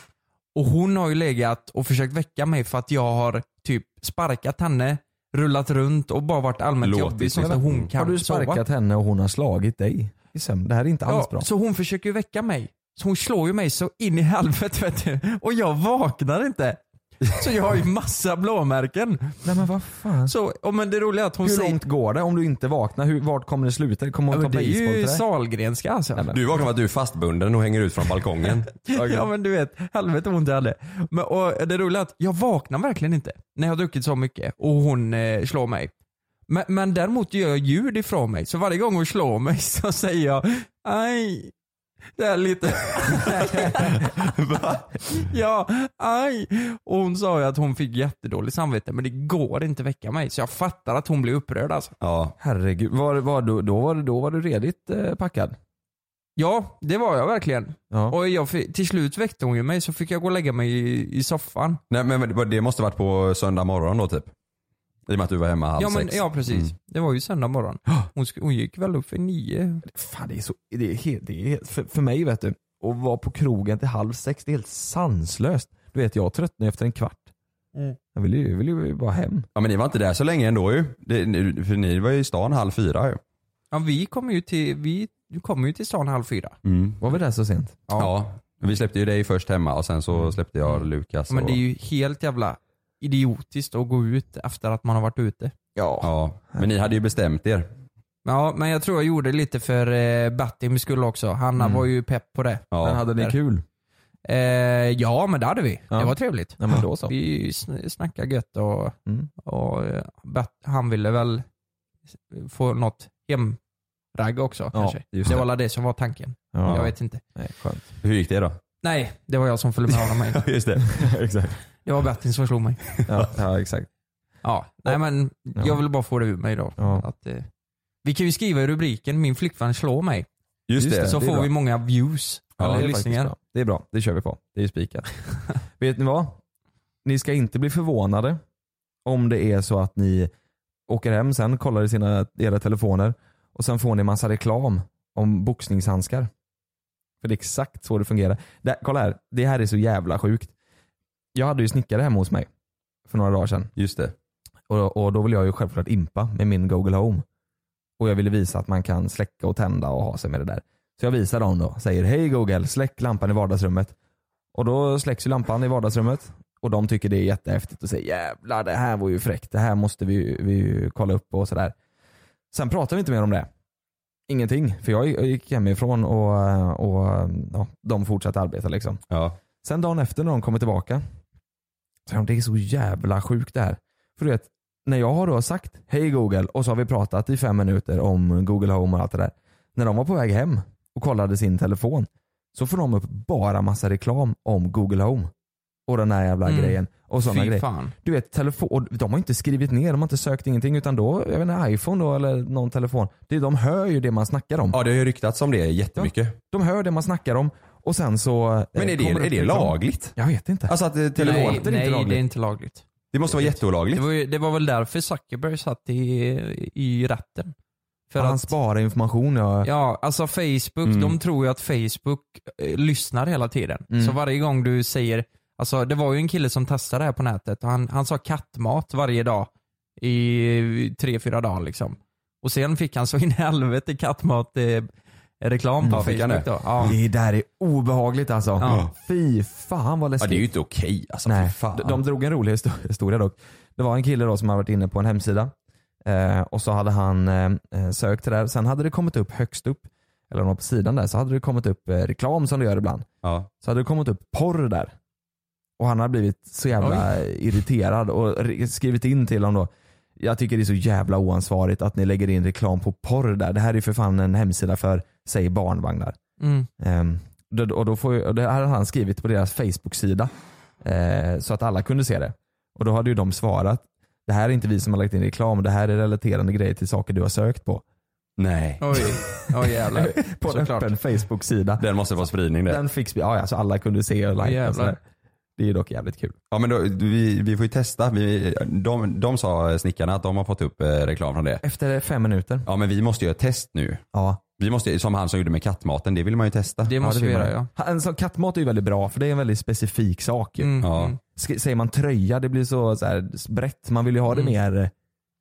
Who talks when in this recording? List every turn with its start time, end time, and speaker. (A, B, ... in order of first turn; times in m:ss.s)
0:00.6-0:08.6 A
0:06.8-0:07.9 B
0:07.9-0:11.5 C
0:11.1-0:19.4 A
0:19.4-0:20.3 C
0:20.3-0:21.8 A
0:21.4-0:25.2 C
0:24.3-0:26.3 A
0:26.3-0:29.3 B
0:28.9-0:35.9 A
0:36.5-0:41.5 A
0:42.2-0:44.0 A
0:44.2-0:44.9 B
0:45.1-0:51.9 A
0:52.0-0:52.4 B
0:52.4-0:55.6 C
0:56.4-1:01.8 A
0:57.9-0:58.2 C
1:01.9-1:04.3 B
1:05.1-1:06.7 B
1:05.8-1:09.8 A
1:09.9-1:17.3 C
1:18.1-1:19.5 C
1:19.6-1:23.2 B
1:23.7-1:26.6 A
1:26.6-1:27.0 B
1:27.0-1:27.8 C
1:28.0-1:31.6 B
1:31.3-1:35.5 A
1:35.8-1:36.7 C
1:36.0-1:37.7 B
1:38.2-1:43.4 A
1:41.6-1:41.8 C
1:42.7-1:43.0 B
1:42.8-1:43.6 C
1:44.3-1:51.4 A
1:45.9-1:47.1 C
1:52.3-1:53.6 A
1:54.2-1:57.2 A
1:54.7-1:55.5 C
1:56.5-1:57.9 C
1:58.0-1:58.6 B
1:58.8-2:00.4 A
2:00.3-2:00.9 B
2:00.9-2:01.6 C
2:01.8-2:02.8 A
2:03.0-2:03.3 B
2:03.1-2:03.9 C
2:04.4-2:07.5 A
2:06.8-2:07.0 C
2:08.0-2:10.3 A
2:10.7-2:11.4 B
2:10.8-2:11.5 C
2:11.0-2:13.3 A
2:12.6-2:15.1 C
2:15.8-2:16.4 C
2:17.0-2:18.4 C
2:19.0-2:20.3 C
2:20.9-2:26.3 C
2:27.2-2:30.5 C
2:31.4-2:32.5 C
2:33.1-2:33.7 C
2:33.8-2:34.1 B
2:34.7-2:37.2 C
2:38.0-2:44.0 C
2:44.5-2:51.8 C
2:52.5-2:53.5 C
2:54.3-2:59.0 C
2:59.1-2:59.4 B
2:59.6-3:01.0 C
3:02.1-3:15.3 C
3:15.9-3:24.8 C
3:16.4-3:17.9 A
3:24.7-3:26.4 B
3:26.0-3:32.2 C
3:28.8-3:30.2 B
3:30.7-3:31.9 B
3:31.2-3:37.5 A
3:33.1-3:34.0 B
3:38.1-3:38.5 A
3:38.2-3:39.7 C
3:39.6-3:49.5 A
3:40.8-3:41.2 B
3:43.9-3:44.2 C
3:50.0-3:54.9 A
3:55.4-3:56.9 A
3:55.8-3:56.1 C
3:55.9-3:56.9 B
3:56.8-4:00.5 C
3:58.6-3:58.8 A
3:58.6-3:58.9 B
4:00.2-4:02.0 B
4:01.2-4:05.5 C
4:06.0-4:13.1 C
4:13.2-4:13.5 B
4:13.6-4:14.9 C
4:15.8-4:26.2 C
4:16.8-4:17.1 A
4:26.4-4:26.7 A
4:26.8-4:37.8 C
4:38.4-4:39.0 B
4:38.8-4:40.9 A
4:39.7-4:41.8 C
4:41.8-4:42.8 B
4:42.7-4:45.0 C
4:44.4-4:45.0 A
4:45.6-4:46.4 C
4:46.5-4:51.6 B
4:51.6-4:52.7 C
4:52.7-4:54.0 B
4:54.1-4:54.4 C
4:54.6-4:56.9 B
4:56.9-4:57.7 A
4:57.0-5:04.9 C
5:00.6-5:01.2 A
5:00.8-5:01.1 B
5:04.3-5:04.6 A